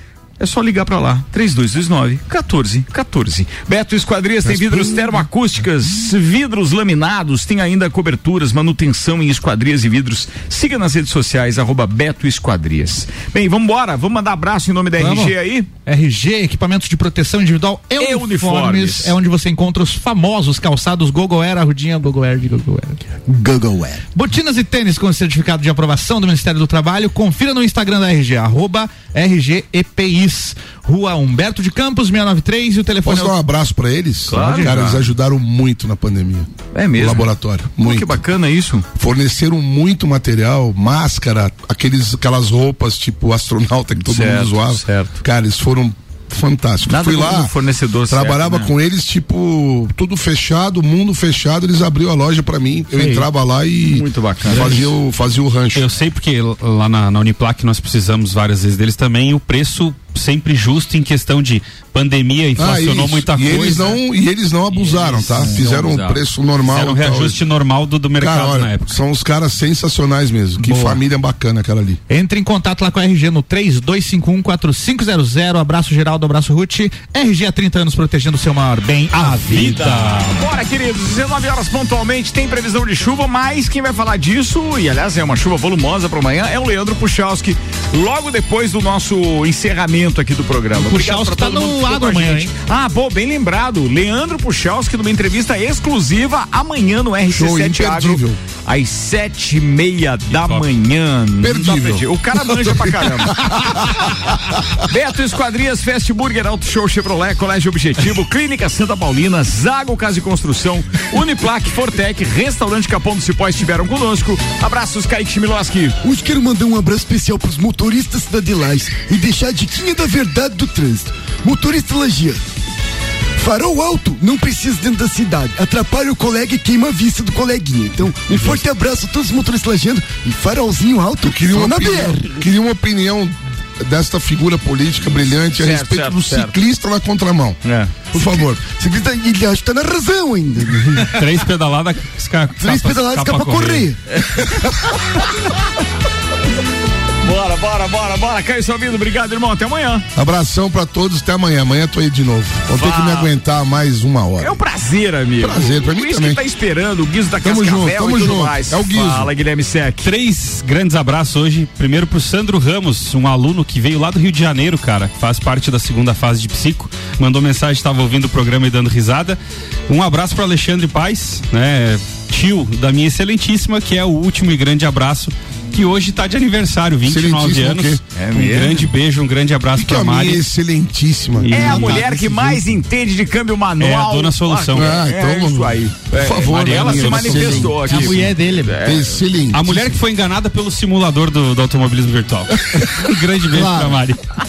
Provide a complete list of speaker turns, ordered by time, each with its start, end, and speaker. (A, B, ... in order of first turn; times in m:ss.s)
0:00.4-0:15.7 A
0:04.4-0:05.2 B
0:15.0-0:15.3 C
0:15.8-0:23.1 C
0:18.0-0:19.2 A
0:23.3-0:24.1 D
0:24.1-0:33.4 C
0:33.0-0:38.2 B
0:34.3-0:35.1 A
0:34.3-0:34.8 C
0:36.7-0:38.9 A
0:39.0-0:47.5 B
0:44.0-0:45.2 A
0:46.9-0:48.7 A
0:48.1-0:55.9 B
0:53.0-0:53.3 C
0:53.9-0:54.9 A
0:55.8-1:04.0 E
1:02.6-1:07.4 B
1:05.4-1:06.2 A
1:06.6-1:09.0 E
1:08.2-1:12.0 B
1:10.6-1:11.0 C
1:12.1-1:19.8 C
1:19.1-1:20.4 E
1:19.5-1:43.9 A
1:30.8-1:32.5 C
1:37.3-1:38.4 B
1:40.3-1:40.7 E
1:41.4-1:44.0 B
1:44.8-1:56.0 A
1:56.0-2:02.4 D
2:03.4-2:12.4 D
2:11.2-2:17.6 B
2:15.5-2:16.6 A
2:17.6-2:18.0 A
2:18.1-2:18.6 B
2:18.1-2:21.3 D
2:21.0-2:23.9 E
2:22.6-2:24.5 D
2:27.2-2:30.0 A
2:30.2-2:34.6 B
2:32.8-2:33.3 A
2:34.4-2:40.1 A
2:35.4-2:36.4 B
2:37.4-2:39.3 B
2:40.0-3:00.4 E
2:57.1-2:58.0 B
2:58.1-2:58.9 A
2:59.8-3:02.5 B
3:01.5-3:09.2 A
3:01.5-3:02.3 D
3:01.6-3:02.0 C
3:03.8-3:05.0 E
3:04.8-3:08.1 B
3:06.5-3:07.8 E
3:07.8-3:08.8 C
3:08.8-3:10.0 B
3:09.5-3:14.2 E
3:13.5-3:13.9 C